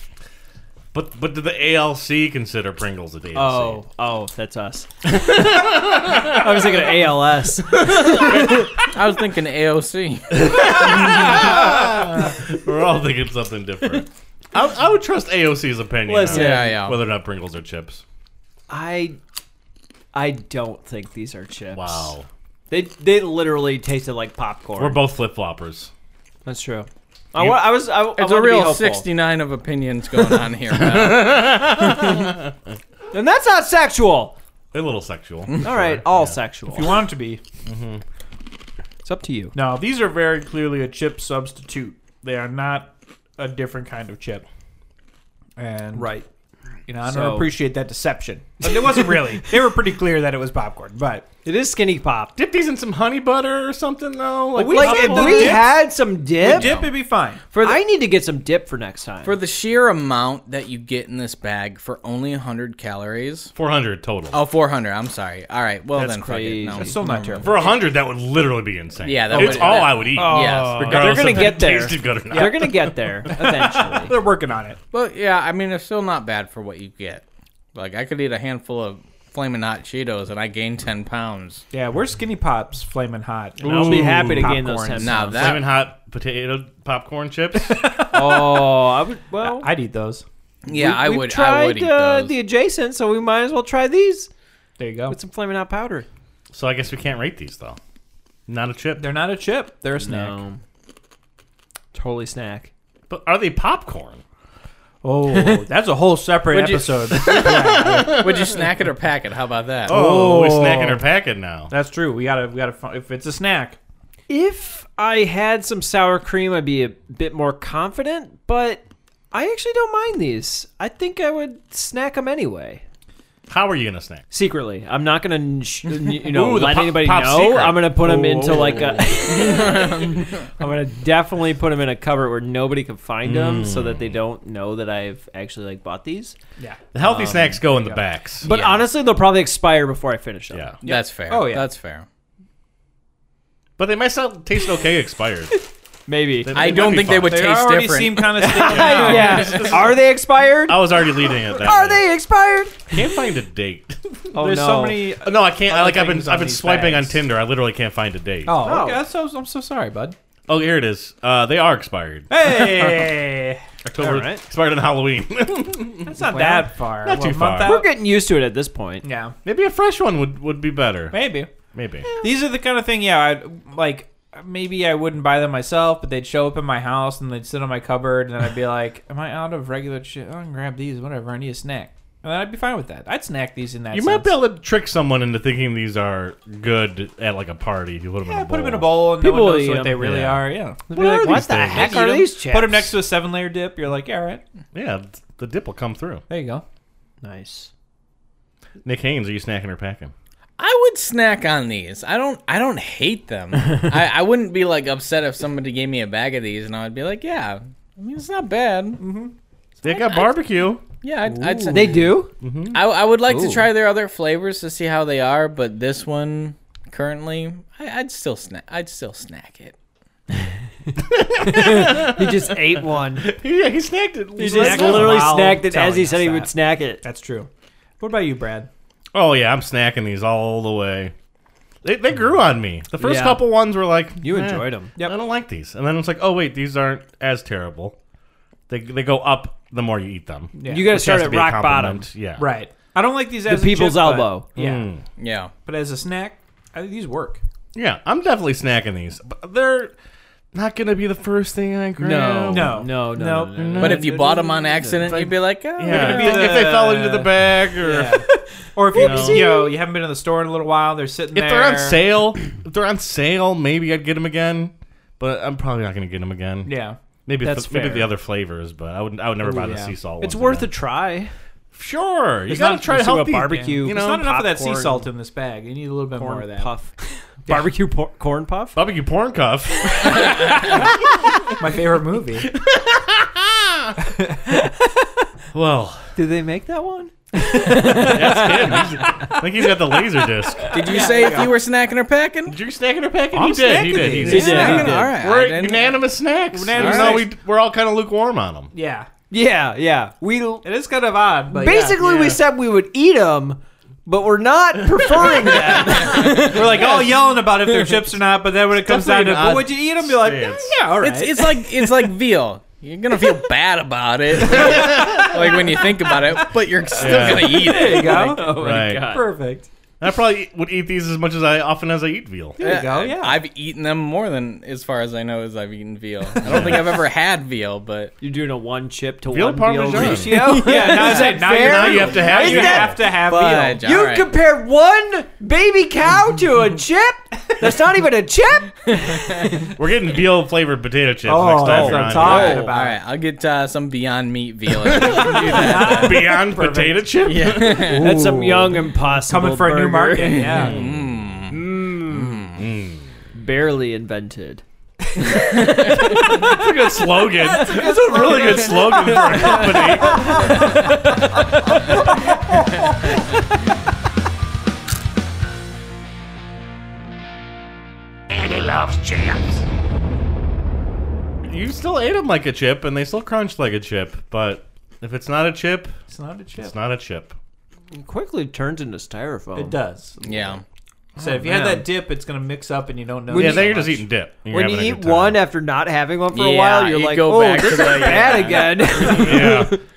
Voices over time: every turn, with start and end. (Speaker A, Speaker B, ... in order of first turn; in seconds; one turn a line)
Speaker A: 0.9-3.8
Speaker B: 3.3-4.9
Speaker A: 5.0-6.8
Speaker B: 6.1-8.3
Speaker A: 7.7-8.7
Speaker C: 8.1-11.7
Speaker A: 10.3-18.0
Speaker B: 16.1-16.8
Speaker C: 16.3-17.0
Speaker B: 18.7-19.2
Speaker B: 20.1-22.1
Speaker A: 21.7-22.3
Speaker B: 22.7-25.0
Speaker A: 24.8-25.9
Speaker B: 26.4-29.1
Speaker C: 28.1-32.3
Speaker A: 30.7-32.5
Speaker B: 33.1-34.4
Speaker A: 34.7-36.4
Speaker B: 35.6-37.0
Speaker D: 36.7-37.4
Speaker A: 37.6-38.0
Speaker B: 39.0-39.5
Speaker D: 39.5-44.4
Speaker D: 45.6-46.2
Speaker B: 45.9-46.2
Speaker D: 46.9-51.2
Speaker B: 47.0-47.5
Speaker B: 48.6-49.5
Speaker B: 51.4-52.3
Speaker A: 52.4-55.6
Speaker D: 54.5-55.8
Speaker B: 54.6-56.8
Speaker D: 56.4-57.8
Speaker C: 56.4-56.9
Speaker B: 57.5-59.4
Speaker C: 59.2-63.5
Speaker A: 63.5-64.4
Speaker C: 64.3-67.3
Speaker B: 65.9-67.3
Speaker D: 66.8-67.7
Speaker A: 67.4-73.9
Speaker C: 69.0-70.9
Speaker D: 69.3-71.5
Speaker B: 70.2-74.1
Speaker D: 72.3-72.7
Speaker D: 73.3-74.8
Speaker C: 74.9-77.2
Speaker C: 77.7-81.6
Speaker D: 81.7-85.2
Speaker A: 83.6-84.6
Speaker B: 83.6-85.5
Speaker C: 84.9-85.7
Speaker A: 85.3-87.8
Speaker D: 87.5-88.7
Speaker B: 88.1-89.7
Speaker D: 89.4-90.2
Speaker C: 90.7-92.3
Speaker B: 90.7-94.3
Speaker D: 94.8-95.2
Speaker B: 95.1-96.1
Speaker A: 96.5-97.8
Speaker A: 98.5-99.1
Speaker D: 99.0-100.4
Speaker B: 100.0-100.6
Speaker B: 101.9-102.7
Speaker A: 103.1-104.2
Speaker D: 105.0-108.3
Speaker B: 105.3-105.6
Speaker C: 106.5-110.0
Speaker A: 107.1-108.7
Speaker D: 109.9-111.0
Speaker A: 109.9-111.7
Speaker D: 111.7-113.8
Speaker B: 114.3-122.8
Speaker A: 123.5-124.2
Speaker B: 124.3-136.3
Speaker A: 126.2-127.9
Speaker D: 128.0-129.2
Speaker C: 129.3-130.2
Speaker A: 133.2-134.1
Speaker A: 136.9-138.5
Speaker B: 137.0-140.7
Speaker C: 138.4-138.9
Speaker D: 140.8-141.7
Speaker C: 140.8-142.1
Speaker A: 143.8-145.5
Speaker B: 145.5-146.7
Speaker A: 146.4-147.4
Speaker C: 146.5-148.4
Speaker D: 146.9-149.7
Speaker B: 148.4-152.8
Speaker A: 148.7-150.0
Speaker A: 150.7-152.1
Speaker A: 152.9-154.2
Speaker B: 154.3-155.0
Speaker D: 154.3-157.2
Speaker A: 155.2-158.5
Speaker D: 158.4-160.2
Speaker B: 158.5-159.0
Speaker A: 160.5-162.3
Speaker D: 162.3-163.6
Speaker A: 163.8-166.4
Speaker B: 164.0-164.4
Speaker D: 166.0-167.9
Speaker B: 166.2-166.7
Speaker A: 167.0-167.8
Speaker B: 167.6-169.1
Speaker D: 169.0-169.3
Speaker A: 169.4-171.2
Speaker D: 171.1-171.5
Speaker A: 171.7-172.1
Speaker D: 172.2-184.3
Speaker A: 183.9-188.9
Speaker D: 188.2-194.4
Speaker B: 189.2-190.0
Speaker A: 190.0-192.1
Speaker B: 190.9-192.9
Speaker A: 194.7-196.2
Speaker D: 196.3-196.6
Speaker B: 197.2-197.7
Speaker A: 198.8-200.1
Speaker C: 200.6-209.0
Speaker D: 209.0-209.3
Speaker A: 209.8-210.8
Speaker C: 209.9-210.3
Speaker C: 211.0-212.1
Speaker D: 211.3-212.0
Speaker B: 211.7-212.3
Speaker A: 212.4-212.8
Speaker C: 212.7-219.7
Speaker B: 213.3-213.7
Speaker A: 221.1-222.6
Speaker B: 221.4-223.3
Speaker A: 223.2-225.4
Speaker B: 224.4-227.0
Speaker D: 224.4-226.5
Speaker D: 227.0-227.5
Speaker D: 228.0-228.7
Speaker A: 229.1-231.1
Speaker A: 231.8-237.9
Speaker B: 233.0-233.4
Speaker B: 234.2-234.9
Speaker A: 238.7-242.5
Speaker D: 240.5-241.0
Speaker B: 240.6-242.1
Speaker D: 242.4-244.8
Speaker B: 243.5-244.5
Speaker A: 244.6-245.0
Speaker C: 245.2-245.5
Speaker D: 245.6-247.4
Speaker A: 247.7-249.9
Speaker A: 250.5-252.8
Speaker B: 252.0-255.2
Speaker D: 252.5-254.4
Speaker A: 253.6-254.0
Speaker C: 253.8-256.6
Speaker A: 255.0-258.2
Speaker D: 255.9-262.0
Speaker A: 258.9-259.5
Speaker B: 258.9-259.7
Speaker A: 261.3-266.7
Speaker D: 266.6-267.0
Speaker A: 267.2-270.7
Speaker B: 267.4-268.1
Speaker D: 269.4-269.9
Speaker B: 270.2-271.3
Speaker A: 271.7-274.2
Speaker B: 272.5-275.1
Speaker D: 273.8-276.8
Speaker B: 276.1-278.8
Speaker D: 277.5-277.7
Speaker A: 278.8-280.7
Speaker B: 279.9-280.6
Speaker D: 280.1-280.9
Speaker D: 281.5-282.5
Speaker A: 282.5-283.9
Speaker D: 284.0-284.8
Speaker A: 285.5-286.1
Speaker B: 286.1-289.4
Speaker D: 287.4-288.8
Speaker A: 287.9-290.7
Speaker B: 290.4-291.3
Speaker D: 290.7-291.6
Speaker C: 290.7-292.6
Speaker A: 292.5-298.7
Speaker D: 293.3-295.1
Speaker C: 294.2-295.9
Speaker B: 294.2-294.9
Speaker D: 296.5-297.3
Speaker C: 296.7-297.2
Speaker D: 298.7-299.1
Speaker B: 299.3-300.6
Speaker D: 300.6-302.4
Speaker B: 301.5-307.9
Speaker D: 306.0-312.1
Speaker A: 308.7-310.8
Speaker C: 311.0-318.4
Speaker A: 314.4-315.4
Speaker D: 314.6-314.9
Speaker A: 317.0-317.6
Speaker B: 317.1-319.3
Speaker D: 317.6-319.7
Speaker A: 318.6-319.1
Speaker A: 320.0-322.6
Speaker D: 322.6-323.4
Speaker C: 322.6-328.1
Speaker A: 326.4-327.0
Speaker B: 328.2-339.7
Speaker A: 329.3-330.6
Speaker C: 330.0-331.4
Speaker D: 330.0-333.8
Speaker A: 331.4-333.0
Speaker C: 333.2-334.3
Speaker C: 339.0-339.3
Speaker A: 339.8-342.6
Speaker D: 341.2-343.0
Speaker B: 341.6-342.7
Speaker C: 342.2-346.3
Speaker A: 344.8-348.0
Speaker D: 345.1-347.1
Speaker C: 347.2-348.2
Speaker D: 347.7-350.8
Speaker B: 348.0-350.6
Speaker C: 350.2-352.6
Speaker A: 350.6-351.1
Speaker B: 351.5-352.5
Speaker A: 352.6-353.1
Speaker B: 353.3-354.6
Speaker B: 355.2-356.6
Speaker D: 355.4-355.7
Speaker A: 356.0-360.7
Speaker B: 357.4-362.2
Speaker D: 357.7-360.9
Speaker A: 368.3-369.5
Speaker A: 371.4-375.9
Speaker D: 376.1-376.7
Speaker A: 376.6-377.3
Speaker B: 377.9-379.8
Speaker D: 379.5-380.5
Speaker C: 380.2-380.6
Speaker B: 381.1-381.9
Speaker D: 381.2-384.0
Speaker B: 383.3-383.8
Speaker A: 383.3-385.4
Speaker B: 384.5-389.8
Speaker C: 386.3-389.7
Speaker D: 388.1-388.5
Speaker A: 388.9-389.8